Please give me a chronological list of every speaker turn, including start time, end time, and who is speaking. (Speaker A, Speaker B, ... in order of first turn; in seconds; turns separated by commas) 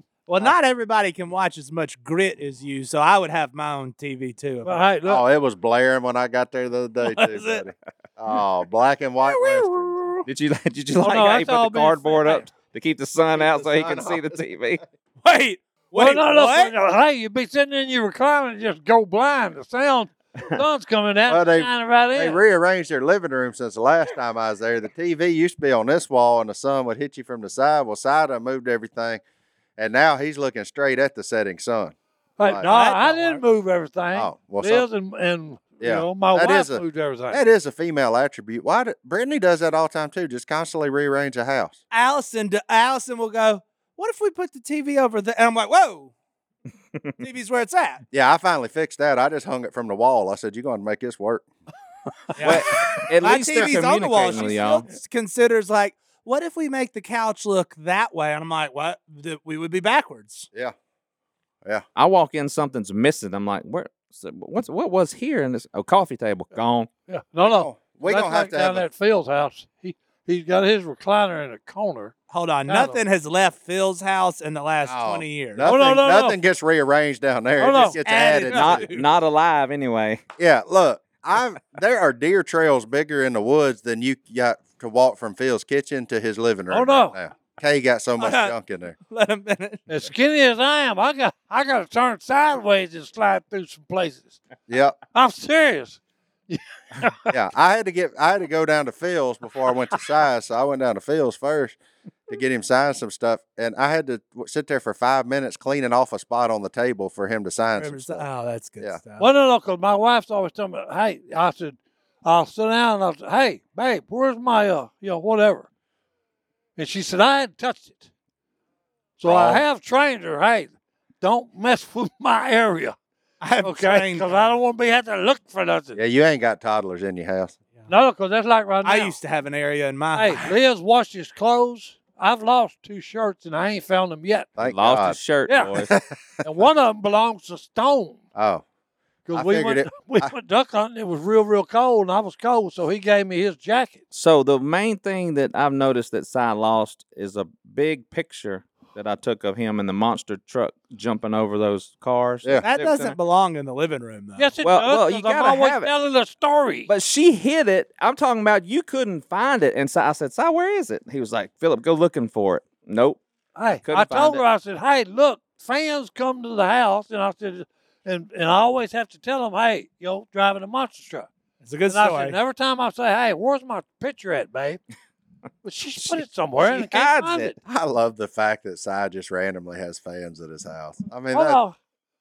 Speaker A: 0.3-4.8, Speaker B: 4.6-5.2, Speaker C: 5.1-10.2, Speaker A: 7.0-7.6, Speaker D: 10.3-14.8, Speaker B: 11.0-12.5, Speaker C: 13.3-14.4, Speaker A: 15.2-16.7, Speaker B: 15.9-22.4, Speaker C: 21.3-29.2, Speaker C: 29.8-31.9, Speaker B: 32.4-37.4, Speaker A: 32.7-33.4, Speaker C: 34.1-34.9, Speaker C: 35.8-41.8, Speaker A: 41.9-46.1, Speaker A: 47.2-48.0, Speaker C: 48.1-51.5, Speaker A: 52.4-60.5, Speaker D: 52.4-54.9, Speaker C: 53.5-54.5, Speaker D: 62.0-66.9, Speaker B: 67.1-72.1, Speaker C: 67.5-68.8, Speaker A: 72.3-75.7, Speaker B: 72.7-73.0, Speaker C: 74.8-78.9, Speaker B: 75.6-76.4, Speaker B: 77.6-78.0, Speaker A: 77.8-79.1, Speaker D: 78.5-80.2, Speaker C: 80.4-89.0, Speaker B: 86.7-87.2, Speaker A: 88.2-88.5, Speaker A: 89.1-89.8, Speaker B: 89.9-94.4, Speaker C: 94.7-95.0, Speaker B: 95.1-97.3, Speaker C: 97.3-101.8, Speaker C: 102.3-108.3, Speaker A: 107.8-109.3, Speaker B: 109.2-115.7, Speaker B: 116.8-118.1, Speaker B: 119.2-123.0, Speaker C: 119.3-119.6, Speaker A: 123.4-124.5, Speaker B: 123.6-126.0, Speaker C: 126.0-127.5, Speaker B: 127.9-129.2, Speaker A: 128.8-130.5, Speaker B: 130.2-134.5, Speaker C: 134.6-136.1, Speaker D: 134.6-136.0, Speaker B: 135.5-135.7, Speaker B: 136.4-138.2, Speaker C: 138.3-138.6, Speaker B: 139.3-144.0, Speaker C: 139.3-140.3, Speaker D: 144.1-153.2, Speaker A: 152.6-154.5, Speaker B: 154.4-156.9, Speaker D: 154.6-155.9, Speaker D: 156.9-163.2, Speaker B: 163.6-171.3, Speaker D: 163.8-164.4, Speaker A: 171.6-172.4, Speaker B: 171.9-174.8, Speaker B: 175.6-177.6, Speaker D: 176.0-177.5, Speaker C: 177.7-181.6, Speaker B: 181.3-181.8